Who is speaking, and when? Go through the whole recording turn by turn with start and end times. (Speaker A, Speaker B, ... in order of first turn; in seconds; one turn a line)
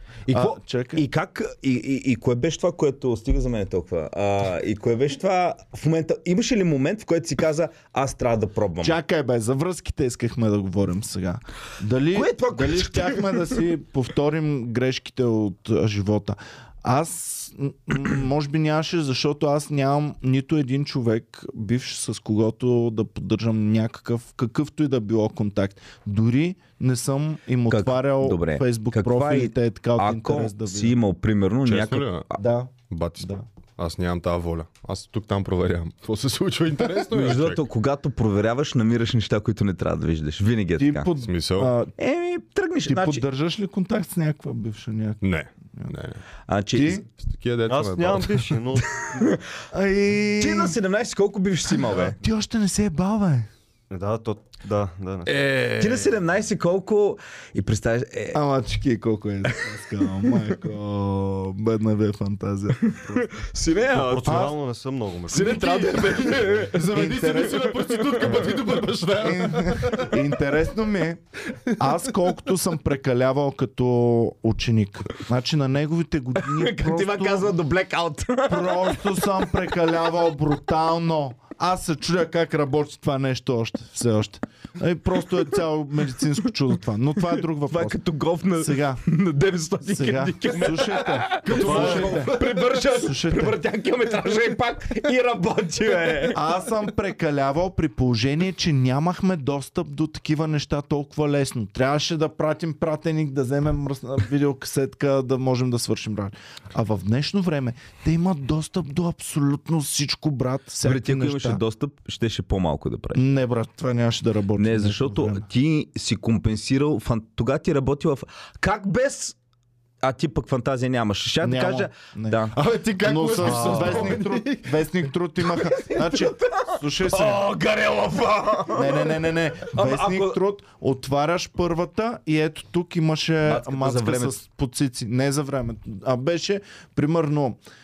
Speaker A: 0.3-9.0
Speaker B: 0.3-1.0
Speaker B: 8.8-30.9
Speaker A: 12.1-13.6
Speaker A: 27.7-32.4
Speaker C: 31.6-32.2
Speaker B: 32.4-33.5
Speaker C: 32.9-37.6
Speaker A: 37.1-41.1
Speaker B: 40.8-41.9
Speaker C: 41.2-41.7
Speaker A: 42.0-43.2
Speaker B: 42.9-45.9
Speaker C: 45.2-46.2
Speaker A: 46.5-47.0
Speaker B: 46.7-47.0
Speaker C: 47.1-48.6
Speaker D: 47.7-49.4
Speaker B: 49.7-50.8
Speaker A: 50.4-52.1
Speaker B: 51.8-53.5
Speaker D: 53.9-55.7
Speaker C: 55.2-56.1
Speaker A: 55.8-58.4
Speaker B: 58.3-63.0
Speaker A: 62.8-64.4
Speaker D: 63.9-65.6
Speaker B: 64.2-64.5
Speaker A: 65.3-68.7
Speaker C: 65.3-70.2
Speaker B: 65.9-67.7
Speaker B: 69.2-71.2
Speaker B: 71.7-77.5
Speaker A: 76.4-79.8
Speaker B: 78.5-88.0
Speaker A: 87.3-96.4
Speaker B: 88.5-89.0
Speaker B: 89.9-93.6
Speaker C: 91.4-92.5
Speaker D: 91.5-92.2
Speaker B: 96.3-111.6
Speaker A: 110.8-113.2
Speaker B: 113.1-115.5
Speaker A: 114.5-119.3
Speaker A: 120.0-122.6
Speaker B: 121.4-127.5
Speaker C: 122.5-124.7
Speaker A: 123.4-124.3
Speaker A: 125.5-130.4
Speaker B: 128.7-137.6
Speaker A: 133.4-134.4